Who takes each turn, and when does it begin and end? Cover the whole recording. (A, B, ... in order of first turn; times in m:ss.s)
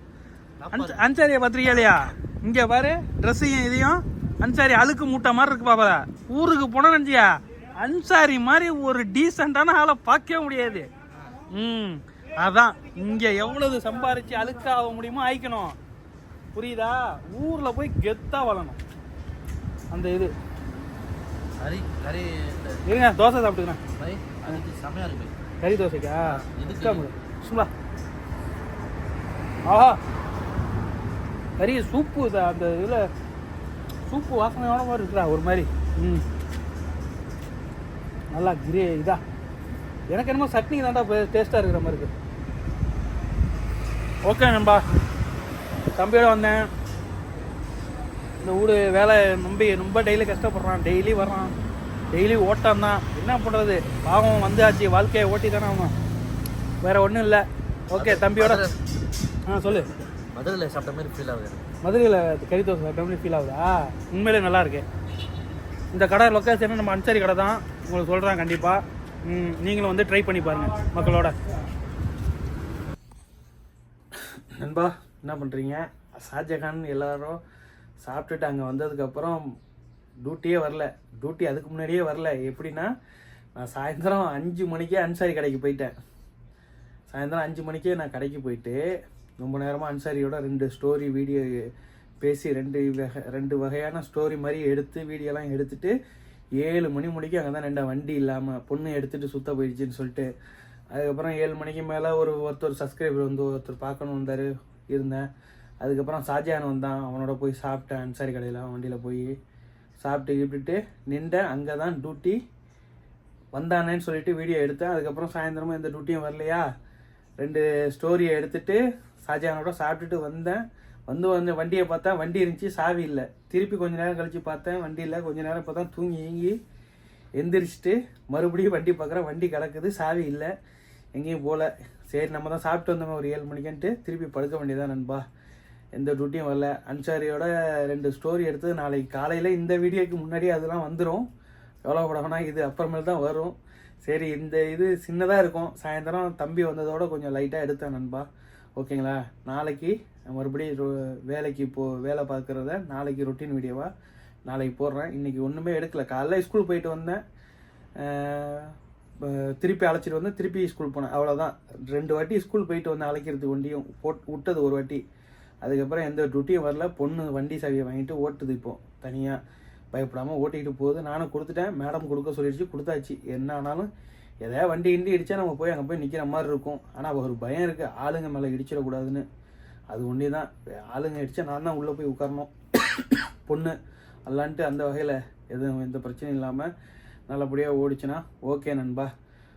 0:00.7-0:01.0 A
0:00.7-0:10.9 B
0:11.5-0:15.8 B
0:16.6-0:18.8 B
0:19.9-0:20.3 B
0:21.6-0:22.8 A
0:22.8-0:23.8 B
0:24.0-0:25.3 A
0:25.6-0:27.7 B
0:26.3-0:27.0 A
0:29.7-0:30.0 B
0:31.6-0:33.0 B
0:34.1-0:36.2 B
0:38.3-0:39.2 B
0:40.1-0:42.1 B
0:44.2-0:44.8 B
0:46.0-0:46.7 B
0:48.4-0:51.5 B
0:52.1-0:55.9 B
0:56.8-0:58.6 B
0:58.0-0:58.8 A
0:59.5-0:59.9 B
1:00.3-1:01.6 A
1:01.8-1:04.9 B
1:05.9-1:11.4 B
1:14.6-1:17.4 B
1:18.0-1:19.4 B
1:20.2-1:22.9 B
1:23.6-1:25.9 B
1:27.1-1:28.8 B
1:29.4-1:31.5 B
1:32.2-1:36.0 B
1:36.6-1:40.3 B
1:40.9-1:45.3 B
1:45.8-1:49.4 B
1:50.0-1:52.4 B
1:53.5-1:56.6 B
1:57.4-2:06.6 B
2:07.4-2:10.5 B
2:11.2-2:15.2 B
2:16.0-2:21.3 B
2:21.8-2:33.9 B
2:34.5-2:37.2 B
2:38.0-2:45.0 B
2:45.6-2:49.4 B
2:49.9-2:53.9 B
2:54.4-2:59.2 B
2:59.9-3:03.8 B
3:04.3-3:06.7 B
3:07.3-3:09.1 B